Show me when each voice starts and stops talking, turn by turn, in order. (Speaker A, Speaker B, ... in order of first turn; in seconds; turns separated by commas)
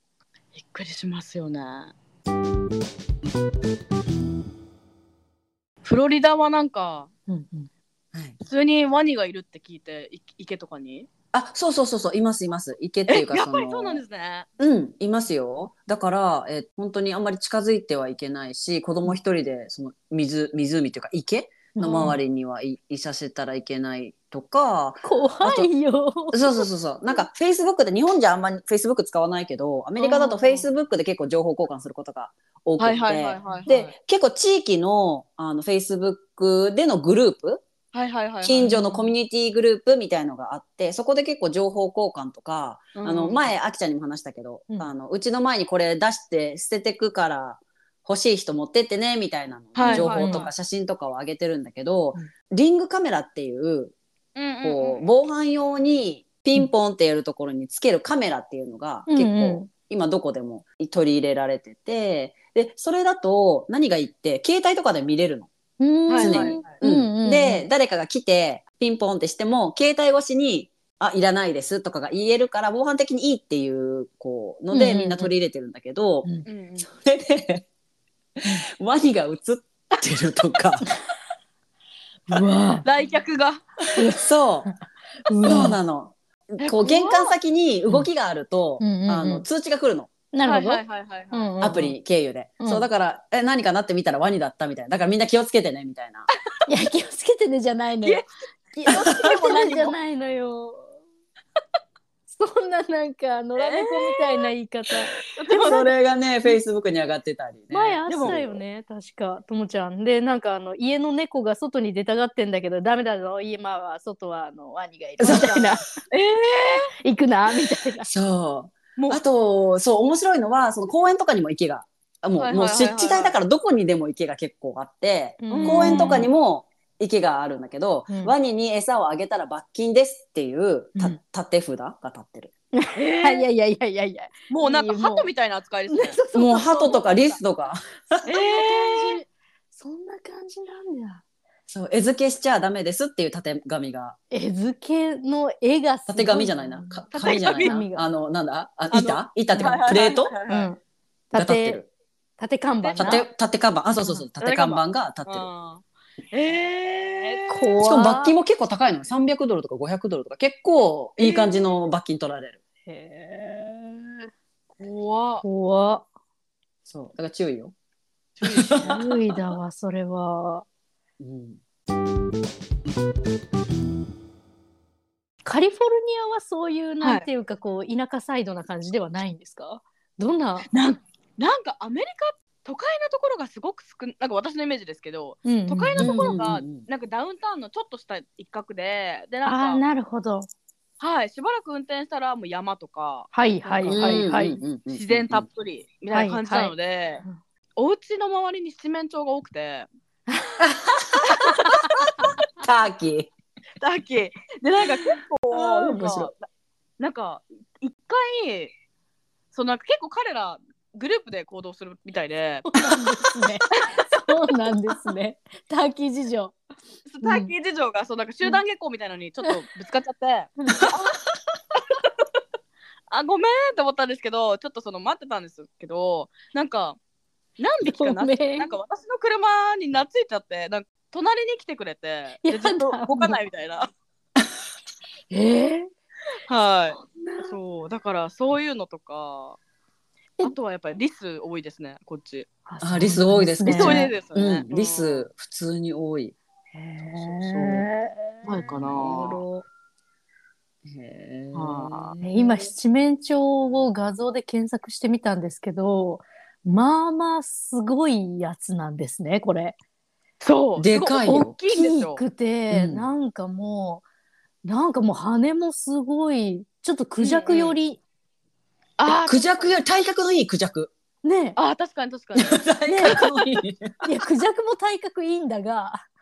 Speaker A: 0.6-1.9, Speaker A: 5.8-7.1, Speaker B: 7.3-7.7, Speaker C: 8.1-8.4, Speaker A: 8.4-11.1, Speaker C: 11.3-14.0, Speaker A: 13.1-14.5, Speaker C: 14.6-25.7, Speaker B: 21.8-22.2, Speaker B: 25.0-26.7, Speaker C: 26.3-37.6, Speaker A: 30.0-30.6, Speaker A: 32.8-33.9, Speaker A: 37.9-38.8, Speaker C: 38.4-54.0, Speaker A: 43.0-43.5, Speaker A: 49.8-50.5, Speaker B: 49.8-50.5, Speaker A: 54.4-55.0, Speaker C: 54.6-65.5, Speaker B: 59.1-59.7, Speaker B: 65.8-67.7, Speaker A: 66.1-66.7, Speaker C: 66.2-76.3, Speaker B: 74.7-75.3, Speaker A: 76.5-76.9, Speaker C: 76.8-77.7, Speaker C: 78.7-80.9, Speaker B: 82.3-82.9, Speaker A: 82.8-83.8, Speaker B: 84.0-84.8, Speaker C: 84.1-84.7, Speaker B: 85.3-85.8, Speaker C: 85.4-90.1, Speaker A: 86.6-87.3, Speaker B: 88.8-89.5, Speaker B: 90.3-90.8, Speaker A: 90.4-91.8, Speaker B: 91.3-91.9, Speaker C: 91.6-96.3, Speaker B: 92.6-92.9, Speaker B: 96.7-98.2, Speaker B: 98.8-101.0, Speaker A: 98.8-100.0, Speaker B: 102.3-105.9, Speaker A: 103.6-104.5, Speaker A: 105.3-105.9, Speaker C: 105.5-108.6, Speaker B: 107.7-115.9, Speaker A: 108.1-108.4, Speaker C: 115.2-115.8, Speaker A: 115.2-116.9, Speaker B: 117.0-118.1, Speaker C: 118.0-132.5, Speaker A: 119.0-119.2, Speaker A: 122.4-123.3, Speaker B: 125.4-126.3, Speaker A: 125.5-126.3, Speaker B: 128.1-128.3, Speaker B: 132.8-135.3, Speaker A: 132.9-133.5, Speaker A: 134.5-136.2, Speaker B: 135.9-137.2, Speaker C: 136.3-138.2, Speaker B: 138.2-141.2, Speaker A: 138.3-139.2, Speaker C: 141.7-144.2, Speaker B: 144.3-148.0, Speaker C: 146.1-150.3, Speaker A: 147.1-147.8, Speaker A: 148.9-150.7, Speaker B: 149.5-149.9, Speaker B: 150.5-150.8, Speaker B: 151.3-151.8, Speaker C: 151.3-151.9, Speaker B: 152.4-153.3, Speaker A: 152.8-153.2, Speaker C: 153.0-155.5, Speaker A: 154.4-157.7, Speaker B: 157.5-158.4, Speaker C: 157.8-162.6, Speaker A: 161.2-161.7, Speaker B: 162.9-164.3, Speaker A: 164.8-165.4, Speaker B: 165.4-166.1, Speaker C: 166.9-167.8, Speaker A: 168.4-169.0, Speaker C: 168.6-169.1, Speaker B: 168.8-170.7, Speaker C: 171.2-171.6, Speaker B: 175.4-180.7, Speaker A: 177.0-177.3, Speaker A: 180.7-189.8, Speaker B: 185.5-186.3, Speaker C: 186.0-186.9, Speaker B: 189.4-190.5, Speaker A: 191.0-194.3, Speaker B: 193.3-194.6, Speaker C: 193.9-195.5, Speaker A: 194.9-197.2, Speaker B: 196.1-196.7, Speaker A: 197.8-199.9, Speaker B: 200.3-200.7, Speaker C: 200.6-201.3, Speaker A: 201.6-202.1, Speaker C: 202.6-203.3, Speaker A: 203.8-206.3, Speaker C: 205.5-206.3, Speaker A: 207.0-208.7, Speaker A: 209.5-212.8, Speaker B: 212.7-216.6, Speaker A: 213.8-214.1, Speaker A: 217.1-221.3, Speaker B: 217.2-217.5, Speaker B: 220.6-220.9, Speaker A: 223.1-227.0, Speaker A: 227.6-233.9, Speaker B: 227.8-228.7, Speaker B: 232.4-233.4, Speaker B: 235.3-235.9, Speaker A: 236.5-239.6, Speaker B: 237.1-237.5, Speaker A: 240.4-242.5, Speaker B: 242.7-244.1, Speaker C: 242.8-246.3, Speaker A: 243.7-245.3, Speaker B: 246.7-248.7, Speaker C: 247.0-247.7, Speaker A: 248.4-249.4, Speaker C: 248.8-249.7, Speaker C: 250.8-252.7, Speaker A: 251.5-252.2, Speaker B: 252.2-259.8, Speaker A: 260.4-262.2, Speaker C: 260.8-261.6, Speaker B: 261.3-264.0, Speaker C: 262.7-263.1, Speaker B: 264.6-268.0, Speaker A: 267.2-267.8, Speaker A: 269.0-269.7, Speaker C: 269.1-270.9, Speaker B: 271.2-271.6, Speaker A: 271.6-273.3, Speaker C: 272.4-274.1, Speaker B: 272.9-273.3, Speaker B: 274.0-276.0